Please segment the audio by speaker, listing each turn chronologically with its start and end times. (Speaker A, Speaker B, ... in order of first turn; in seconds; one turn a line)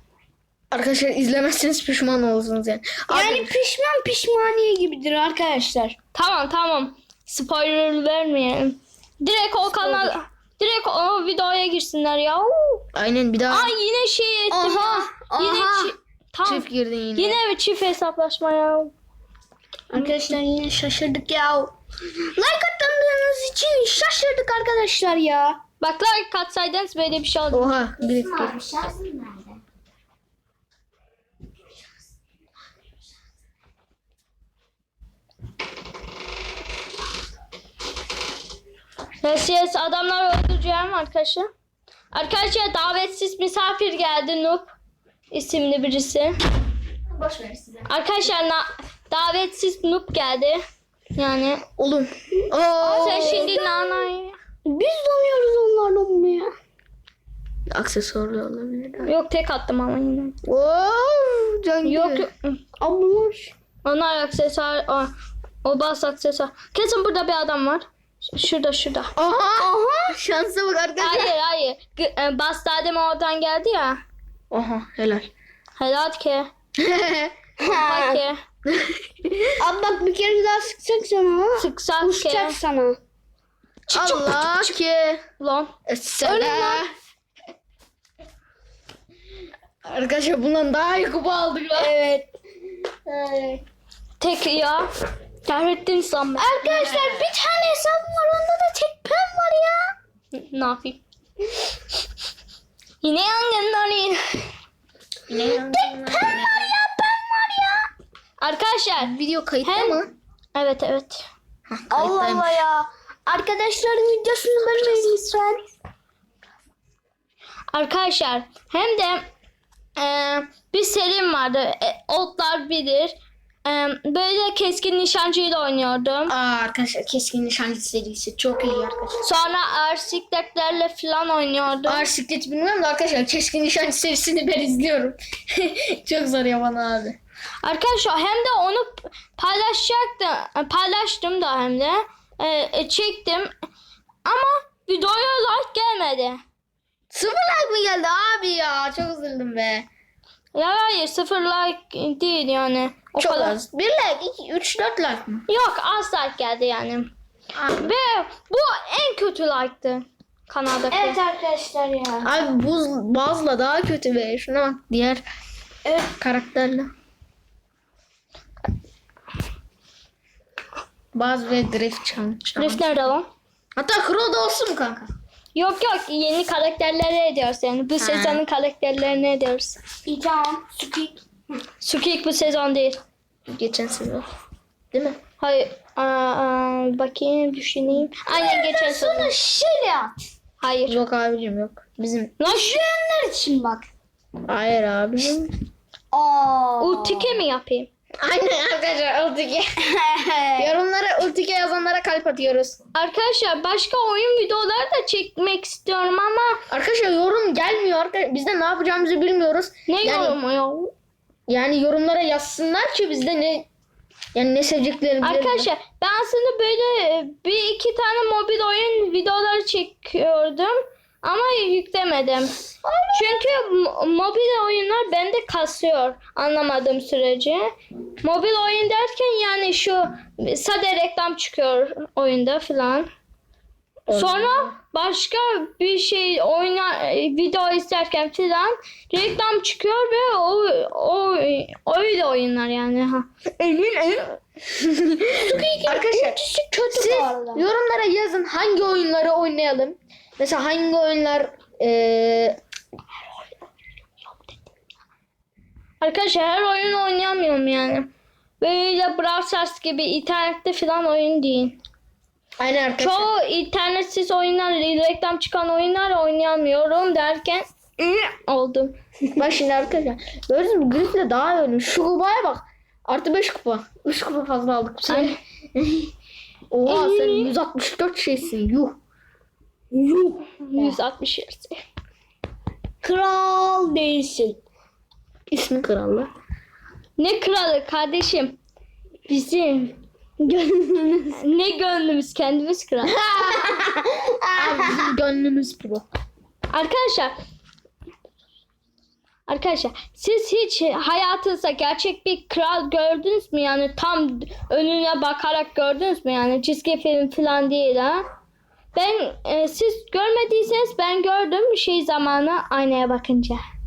Speaker A: 0.7-3.5
Speaker B: 3.1-5.9
Speaker C: 6.1-12.8
Speaker A: 12.9-13.7
Speaker C: 13.5-18.9
Speaker B: 14.5-15.9
Speaker A: 16.4-17.4
Speaker A: 19.9-21.7
Speaker B: 19.9-20.4
Speaker B: 22.3-25.6
Speaker C: 25.8-27.7
Speaker A: 27.5-28.6
Speaker B: 28.0-29.6
Speaker C: 39.2-41.5
Speaker C: 42.1-44.7
Speaker C: 45.3-46.4
Speaker A: 47.1-47.9
Speaker C: 47.9-50.6
Speaker C: 51.1-51.6
Speaker A: 51.8-53.5
Speaker B: 52.8-54.1
Speaker C: 52.9-54.4
Speaker B: 54.6-56.5
Speaker A: 57.7-59.1
Speaker C: 59.0-60.4
Speaker A: 60.4-62.3
Speaker C: 61.8-62.6
Speaker B: 62.8-63.5
Speaker C: 63.8-65.1
Speaker C: 65.6-69.1
Speaker A: 69.2-71.3
Speaker B: 69.6-70.2
Speaker C: 71.0-74.0
Speaker A: 74.5-75.3
Speaker C: 75.8-76.5
Speaker A: 76.8-77.3
Speaker B: 77.6-78.2
Speaker C: 77.7-78.4
Speaker A: 78.7-79.5
Speaker B: 79.6-83.0
Speaker C: 81.6-82.6
Speaker A: 83.9-85.2
Speaker C: 83.9-84.7
Speaker C: 85.4-86.8
Speaker A: 85.9-86.9
Speaker A: 89.8-91.9
Speaker B: 91.8-92.3
Speaker A: 93.1-93.6
Speaker C: 94.2-94.9
Speaker C: 95.4-96.5
Speaker B: 96.4-99.9
Speaker A: 96.6-97.3
Speaker C: 100.3-101.0
Speaker C: 103.0-104.5
Speaker A: 105.3-106.7
Speaker B: 105.5-107.9
Speaker C: 108.4-110.0
Speaker A: 109.0-110.1
Speaker C: 110.5-111.2
Speaker A: 111.7-112.6
Speaker B: 111.9-115.7
Speaker C: 117.7-119.2
Speaker C: 120.0-126.3
Speaker A: 126.3-129.2
Speaker C: 129.2-132.1
Speaker A: 131.8-137.2
Speaker C: 137.6-143.5
Speaker C: 144.2-146.4
Speaker A: 147.1-149.8
Speaker C: 150.5-153.6
Speaker A: 153.1-155.4
Speaker C: 155.5-157.1
Speaker A: 157.5-157.9
Speaker C: 157.8-161.2
Speaker B: 160.9-162.3
Speaker A: 162.2-165.2
Speaker B: 165.8-166.1
Speaker A: 166.2-166.9
Speaker A: 171.1-172.8
Speaker C: 172.6-173.3
Speaker A: 173.8-175.1
Speaker C: 175.5-179.8
Speaker A: 178.0-178.4
Speaker B: 180.0-181.2
Speaker C: 181.8-183.0
Speaker A: 183.5-184.3
Speaker A: 184.9-185.2
Speaker C: 185.4-189.3
Speaker B: 188.3-190.2
Speaker C: 190.6-191.0
Speaker A: 190.9-192.3
Speaker C: 192.4-192.8
Speaker B: 192.4-193.9
Speaker A: 194.5-195.5
Speaker B: 196.1-197.4
Speaker C: 196.8-197.9
Speaker A: 198.2-199.7
Speaker B: 199.8-200.7
Speaker A: 200.6-202.8
Speaker C: 202.9-206.6
Speaker A: 206.7-210.4
Speaker C: 209.9-210.9
Speaker A: 211.5-213.7
Speaker A: 214.3-215.7
Speaker C: 215.2-222.5
Speaker B: 222.8-223.5
Speaker C: 223.1-227.7
Speaker C: 228.2-233.1
Speaker A: 234.1-234.7
Speaker C: 234.1-244.4
Speaker A: 244.8-245.3
Speaker B: 245.4-247.6
Speaker A: 245.8-246.4
Speaker A: 246.9-252.6
Speaker C: 256.0-258.1
Speaker C: 258.6-261.8
Speaker A: 262.6-263.3
Speaker C: 263.0-268.9
Speaker A: 269.4-276.1
Speaker C: 275.1-275.4
Speaker A: 276.7-279.0
Speaker C: 276.9-277.5
Speaker B: 279.9-281.0
Speaker C: 280.6-281.8
Speaker B: 283.0-284.6
Speaker A: 285.5-286.3
Speaker C: 287.2-288.6
Speaker C: 289.3-290.0
Speaker B: 290.4-291.4
Speaker C: 291.3-293.2
Speaker A: 293.0-293.9
Speaker B: 293.5-295.1
Speaker A: 294.6-296.0
Speaker C: 296.7-297.3
Speaker C: 299.5-308.2
Speaker C: 308.9-313.6